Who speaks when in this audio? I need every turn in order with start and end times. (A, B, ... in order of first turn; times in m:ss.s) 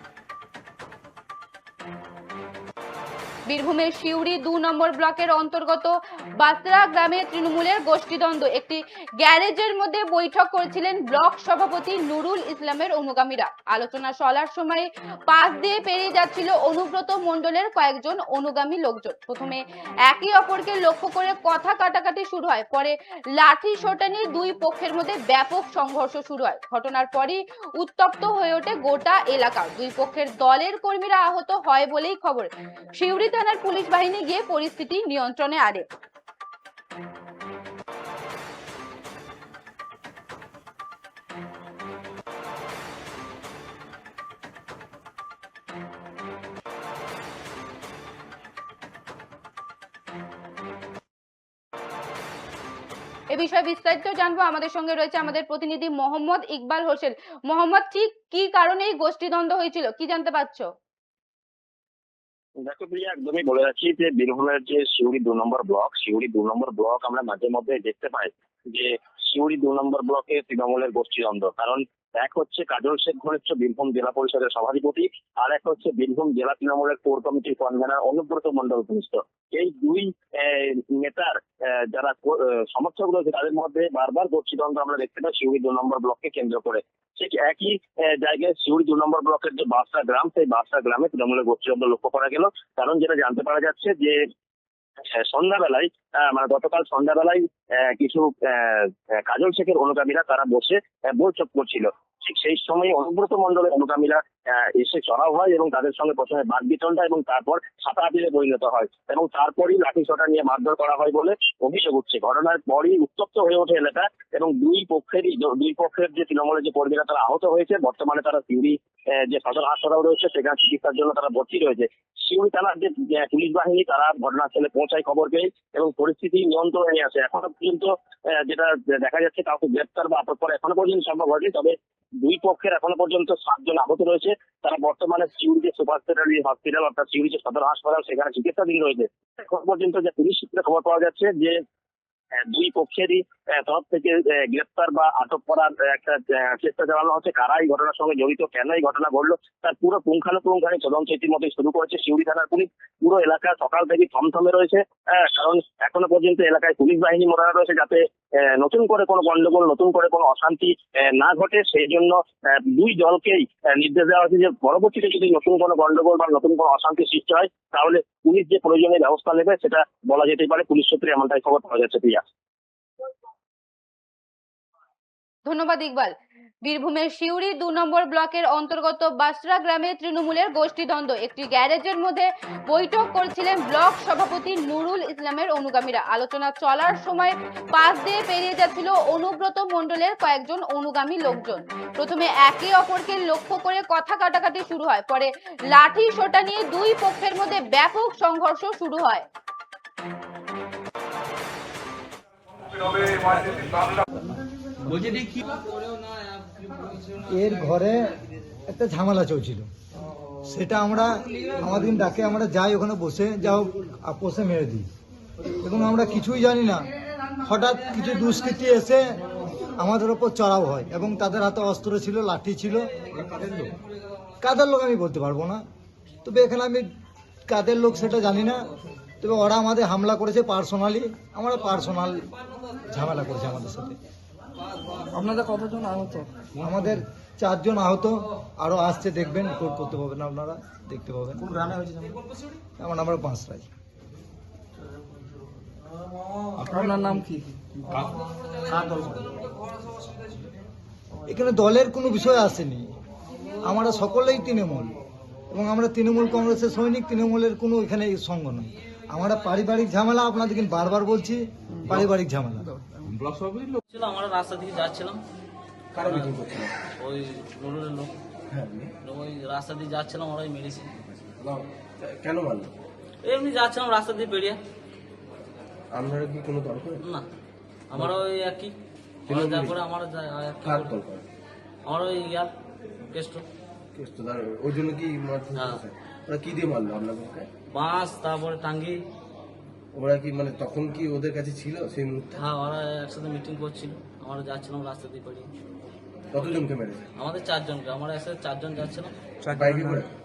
0:03.5-0:35.8 A
0:53.3-1:00.7 A
1:02.6-1:34.2 B
1:35.0-2:21.6 B
2:22.4-2:52.2 B
2:55.4-2:56.1 A
2:56.6-3:19.2 A
3:27.2-3:28.1 C
3:28.7-3:29.7 C
3:30.4-3:34.9 C
3:35.6-3:36.9 C
3:37.4-3:39.2 C
3:39.7-3:43.7 C
3:44.4-3:45.6 C
3:46.2-3:46.9 C
3:47.5-3:48.6 C
3:49.2-3:52.3 C
3:52.9-3:54.0 C
3:55.1-3:56.3 D
3:56.5-4:01.8 C
4:02.8-4:03.7 C
4:06.8-4:07.5 D
4:08.8-4:09.3 C
4:11.3-4:12.8 C
4:13.6-4:15.0 C
4:15.5-4:22.7 C
4:23.9-4:25.2 E
4:25.9-4:26.7 F
4:26.0-4:26.4 E
4:27.0-4:28.1 E
4:28.5-4:28.9 F
4:29.0-4:31.3 E
4:31.4-4:32.7 F
4:33.2-4:34.6 E
4:35.9-4:37.0 F
4:37.9-4:38.7 E
4:39.3-4:40.9 E
4:39.3-4:39.8 F
4:40.6-4:41.2 F
4:41.9-4:42.5 E
4:43.1-4:43.4 E
4:43.9-4:47.5 F
4:45.5-4:45.8 E
4:47.7-4:49.0 E
4:49.9-4:52.4 F
4:52.3-4:55.5 E
4:56.3-4:57.1 F
4:57.2-4:59.1 E
4:59.5-5:00.1 F